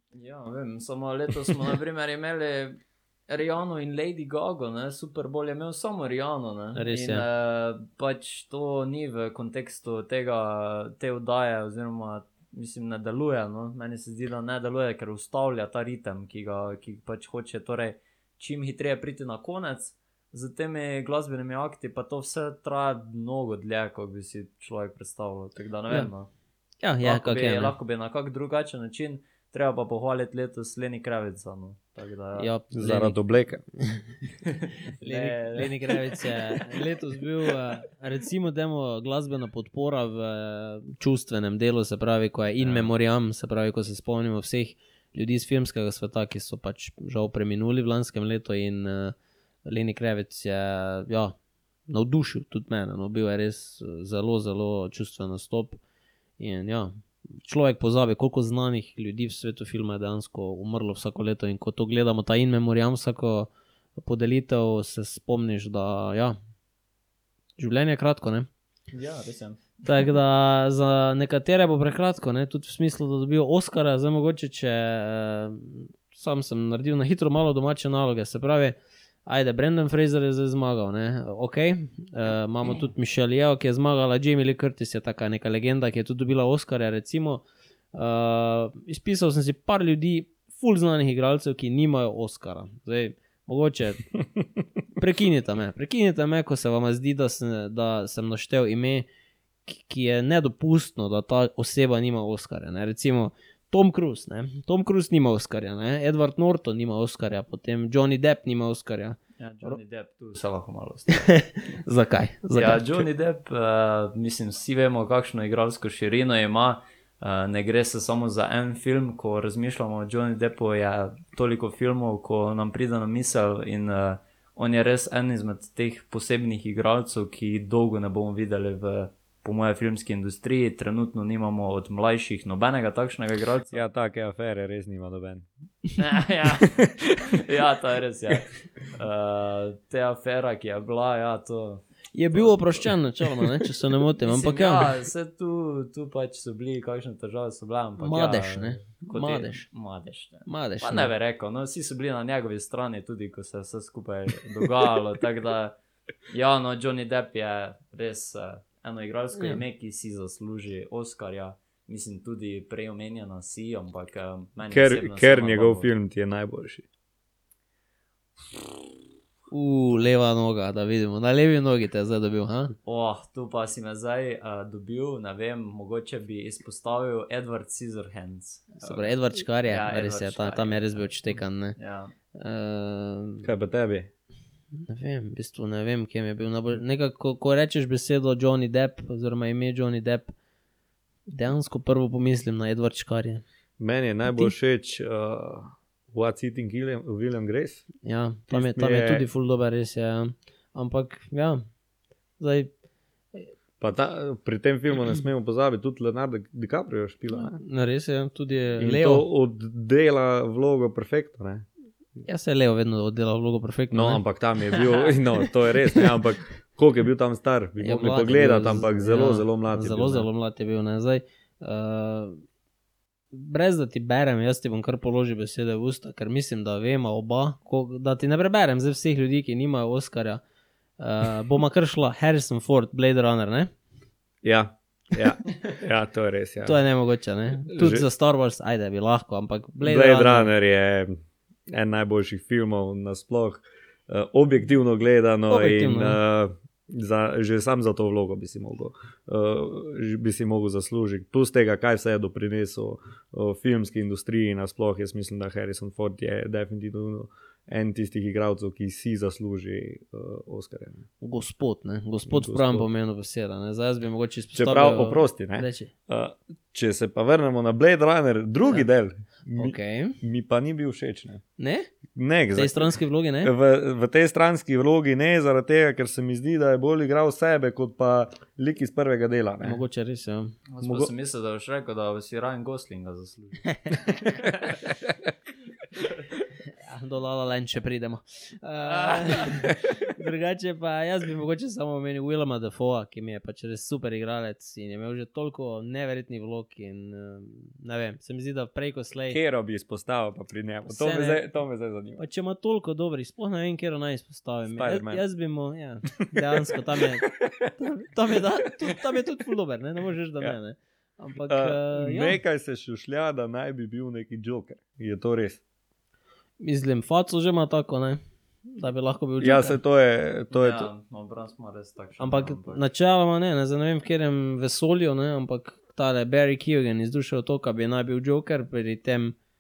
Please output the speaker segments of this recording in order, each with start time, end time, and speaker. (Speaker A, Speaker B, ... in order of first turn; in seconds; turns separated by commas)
Speaker A: 0.1-26.3, Speaker B: 6.8-7.2, Speaker B: 26.8-27.7, Speaker A: 27.0-32.5, Speaker B: 32.4-33.2, Speaker C: 32.7-33.6, Speaker A: 34.5-36.6, Speaker B: 35.0-49.1, Speaker A: 42.6-42.9, Speaker B: 49.7-51.4, Speaker B: 51.9-55.8, Speaker B: 56.4-66.4, Speaker B: 67.6-68.5, Speaker A: 68.9-69.6, Speaker B: 69.8-78.8, Speaker B: 79.3-94.1, Speaker B: 95.0-99.1, Speaker B: 99.7-109.8, Speaker A: 109.4-111.5, Speaker B: 111.3-113.0, Speaker A: 112.5-133.8, Speaker C: 133.7-135.5, Speaker A: 136.0-142.9, Speaker C: 136.6-137.2, Speaker B: 142.1-144.9, Speaker A: 144.3-155.8, Speaker B: 148.0-149.7, Speaker B: 150.5-151.1, Speaker A: 156.3-165.9, Speaker B: 159.4-159.6, Speaker C: 164.7-166.8, Speaker B: 169.5-172.7, Speaker A: 172.8-182.1, Speaker B: 178.8-181.8, Speaker B: 182.3-183.5, Speaker C: 183.4-184.1, Speaker B: 184.8-190.3, Speaker B: 191.3-193.4, Speaker C: 193.8-197.9, Speaker B: 194.3-194.5, Speaker B: 198.0-201.6, Speaker C: 198.5-199.3, Speaker B: 202.4-202.7, Speaker C: 203.8-207.6, Speaker B: 207.3-209.3, Speaker C: 208.8-211.7, Speaker B: 212.2-214.8, Speaker C: 213.9-220.3, Speaker B: 217.8-222.4, Speaker B: 223.3-230.4, Speaker B: 231.0-233.7, Speaker C: 234.4-236.8, Speaker B: 236.6-240.5, Speaker C: 237.7-238.1, Speaker C: 239.8-241.2, Speaker C: 241.7-261.1, Speaker B: 245.5-246.2, Speaker B: 261.2-265.9, Speaker C: 262.3-262.9, Speaker C: 264.6-271.4, Speaker B: 269.6-270.2, Speaker B: 271.6-271.9, Speaker C: 272.1-279.8, Speaker B: 272.5-273.5, Speaker B: 279.6-280.6, Speaker A: 280.7-283.7, Speaker C: 280.8-281.1, Speaker B: 286.8-299.4, Speaker A: 288.9-289.7, Speaker C: 299.3-302.2, Speaker B: 300.9-301.4, Speaker B: 302.2-312.4, Speaker C: 304.7-305.2, Speaker C: 307.2-307.6, Speaker C: 311.5-315.6, Speaker B: 316.6-318.2, Speaker B: 318.7-319.8, Speaker C: 319.4-320.9, Speaker A: 320.5-322.9, Speaker B: 322.2-329.4